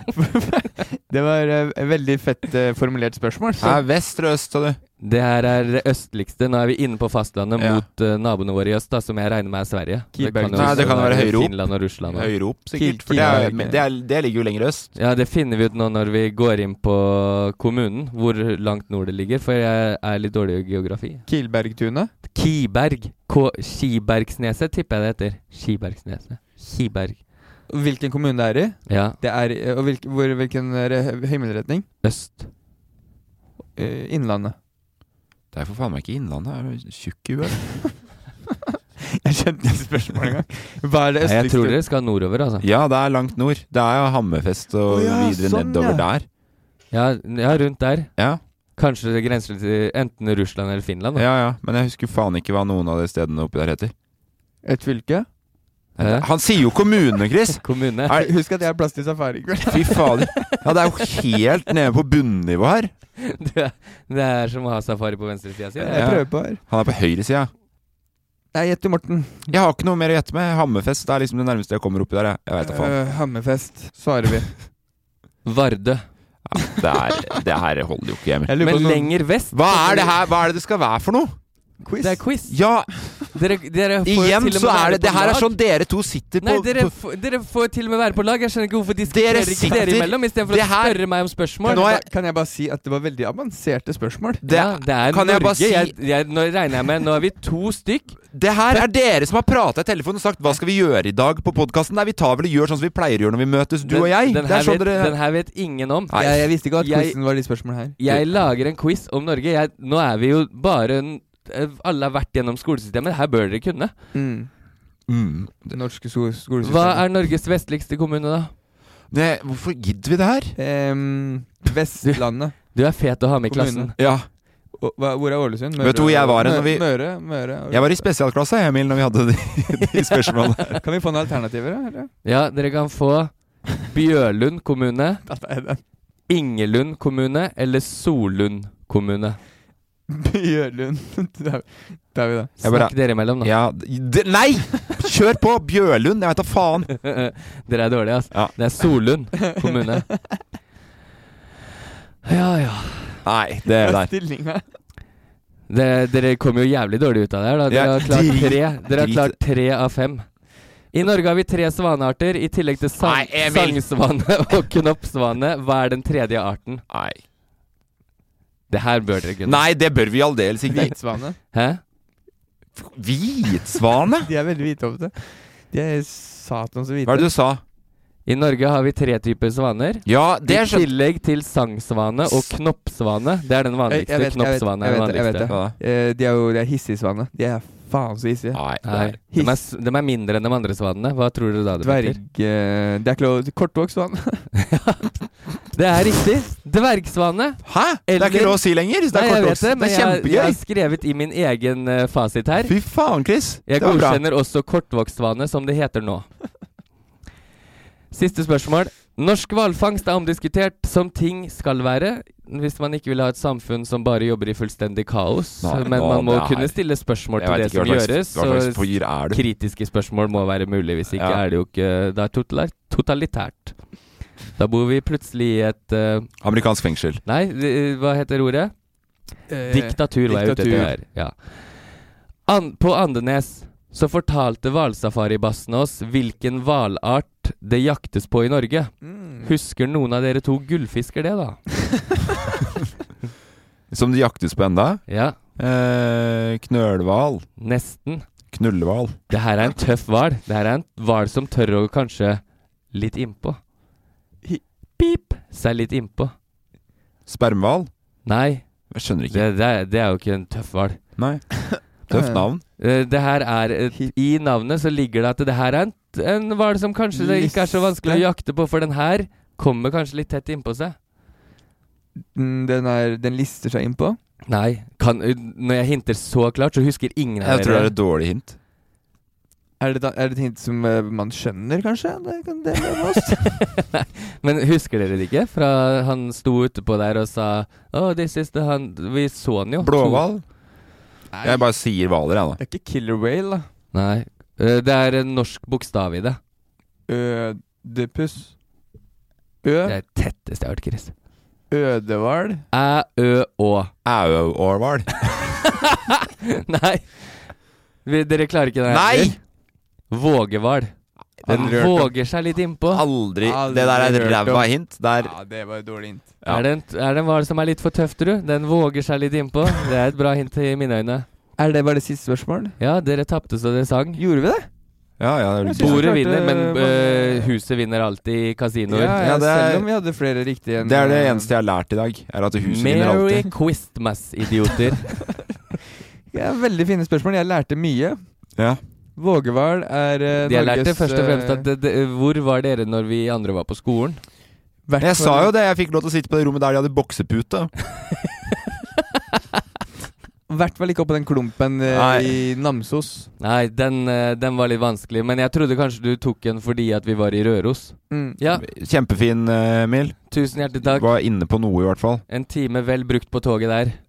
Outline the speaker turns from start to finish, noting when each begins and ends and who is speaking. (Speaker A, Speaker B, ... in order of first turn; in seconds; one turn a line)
Speaker A: 0.1-3.8
Speaker B: 3.6-4.8
Speaker C: 5.0-12.4
Speaker B: 7.6-7.8
Speaker A: 10.1-11.3
Speaker B: 10.5-14.9
Speaker A: 12.8-13.8
Speaker C: 13.1-13.5
Speaker C: 14.9-21.3
Speaker A: 21.3-22.1
Speaker C: 22.2-27.2
Speaker A: 27.7-31.9
Speaker C: 28.9-29.2
Speaker C: 32.0-32.5
Speaker A: 33.8-34.5
Speaker B: 35.5-37.8
Speaker A: 39.2-41.8
Speaker C: 41.2-42.7
Speaker B: 42.6-46.2
Speaker A: 44.9-46.0
Speaker C: 46.9-51.2
Speaker B: 48.2-48.4
Speaker B: 51.1-53.9
Speaker A: 54.6-55.3
Speaker B: 56.0-58.3
Speaker C: 56.0-56.5
Speaker C: 57.6-58.2
Speaker A: 58.1-60.5
Speaker B: 59.7-62.9
Speaker C: 63.2-66.1
Speaker A: 65.8-66.6
Speaker B: 65.9-67.5
Speaker A: 68.5-69.5
Speaker B: 69.5-73.1
Speaker A: 72.6-74.6
Speaker C: 75.4-76.1
Speaker B: 76.5-78.9
Speaker A: 78.5-79.2
Speaker C: 78.6-80.1
Speaker B: 79.5-81.4
Speaker A: 81.8-82.3
Speaker C: 82.0-85.6
Speaker B: 82.5-83.3
Speaker B: 84.0-87.0
Speaker C: 86.4-91.8
Speaker B: 89.1-92.0
Speaker A: 91.6-94.4
Speaker B: 94.4-95.9
Speaker C: 94.5-98.2
Speaker B: 98.3-105.2
Speaker C: 103.8-114.0
Speaker B: 106.1-106.5
Speaker A: 106.1-108.0
Speaker A: 114.1-114.5
Speaker B: 115.1-115.8
Speaker A: 115.7-117.1
Speaker C: 116.6-118.5
Speaker B: 119.1-120.6
Speaker A: 120.6-122.7
Speaker C: 122.0-123.9
Speaker A: 123.5-128.1
Speaker B: 124.0-124.3
Speaker B: 125.8-130.8
Speaker A: 130.8-132.1
Speaker C: 132.2-135.2
Speaker A: 135.2-135.8
Speaker C: 136.3-139.4
Speaker A: 140.1-142.5
Speaker C: 142.6-143.5
Speaker B: 142.6-147.0
Speaker C: 147.0-150.1
Speaker B: 148.3-148.6
Speaker A: 149.4-150.4
Speaker C: 152.2-153.2
Speaker B: 153.2-154.1
Speaker A: 153.8-154.6
Speaker C: 155.7-166.8
Speaker B: 157.7-159.3
Speaker B: 163.0-163.8
Speaker B: 166.9-167.2
Speaker C: 168.7-169.7
Speaker B: 169.4-170.9
Speaker A: 170.7-171.4
Speaker C: 171.5-171.8
Speaker B: 172.7-174.3
Speaker A: 174.2-177.3
Speaker B: 177.1-177.6
Speaker C: 178.2-185.5
Speaker B: 180.0-180.9
Speaker B: 182.2-182.5
Speaker A: 183.9-189.6
Speaker B: 185.5-185.8
Speaker B: 188.5-189.2
Speaker C: 188.8-192.2
Speaker A: 191.8-194.5
Speaker C: 194.7-195.1
Speaker C: 195.7-206.5
Speaker B: 197.6-200.6
Speaker B: 202.6-204.2
Speaker C: 208.1-226.4
Speaker B: 215.6-219.4
Speaker B: 221.1-221.4
Speaker B: 226.4-227.2
Speaker C: 227.2-228.8
Speaker A: 229.5-231.0
Speaker C: 229.7-241.9
Speaker A: 239.0-239.5
Speaker B: 243.9-247.5
Speaker C: 245.1-245.4
Speaker C: 247.6-248.3
Speaker B: 248.5-249.2
Speaker C: 249.3-253.6
Speaker C: 255.0-256.3
Speaker B: 257.3-257.9
Speaker C: 258.2-261.0
Speaker B: 258.9-259.5
Speaker B: 261.1-262.6
Speaker A: 262.1-262.4
Speaker C: 262.8-270.9
Speaker A: 267.1-268.2
Speaker A: 272.3-274.2
Speaker C: 274.5-277.9
Speaker B: 277.4-278.6
Speaker A: 279.8-283.6
Speaker C: 283.6-290.3
Speaker B: 289.8-290.5
Speaker A: 291.3-291.7
Speaker B: 291.4-292.6
Speaker A: 292.6-293.7
Speaker C: 293.9-296.4
Speaker A: 297.1-298.6
Speaker A: 299.6-300.0
Speaker C: 299.8-301.1
Speaker A: 301.7-302.6
Speaker C: 302.7-303.9
Speaker B: 304.0-305.3
Speaker C: 306.7-313.1
Speaker B: 308.9-309.4
Speaker B: 311.4-311.7
Speaker A: 311.4-312.1
Speaker B: 312.9-315.4
Speaker A: 313.4-316.3
Speaker C: 316.4-321.2
Speaker A: 321.6-322.8
Speaker C: 322.8-324.2
Speaker A: 324.2-324.7
Speaker B: 325.2-326.1
Speaker A: 325.6-327.5
Speaker C: 325.8-329.1
Speaker A: 328.9-331.5
Speaker B: 329.2-329.9
Speaker B: 330.8-333.5
Speaker C: 332.6-335.2
Speaker A: 336.3-338.6
Speaker A: 339.2-341.6
Speaker C: 340.4-344.2
Speaker A: 344.9-345.5
Speaker B: 345.0-347.8
Speaker A: 350.5-353.3
Speaker B: 351.9-352.4
Speaker C: 353.4-358.6
Speaker A: 358.1-358.4
Speaker B: 358.5-362.2
Speaker C: 360.3-361.1
Speaker C: 362.3-364.0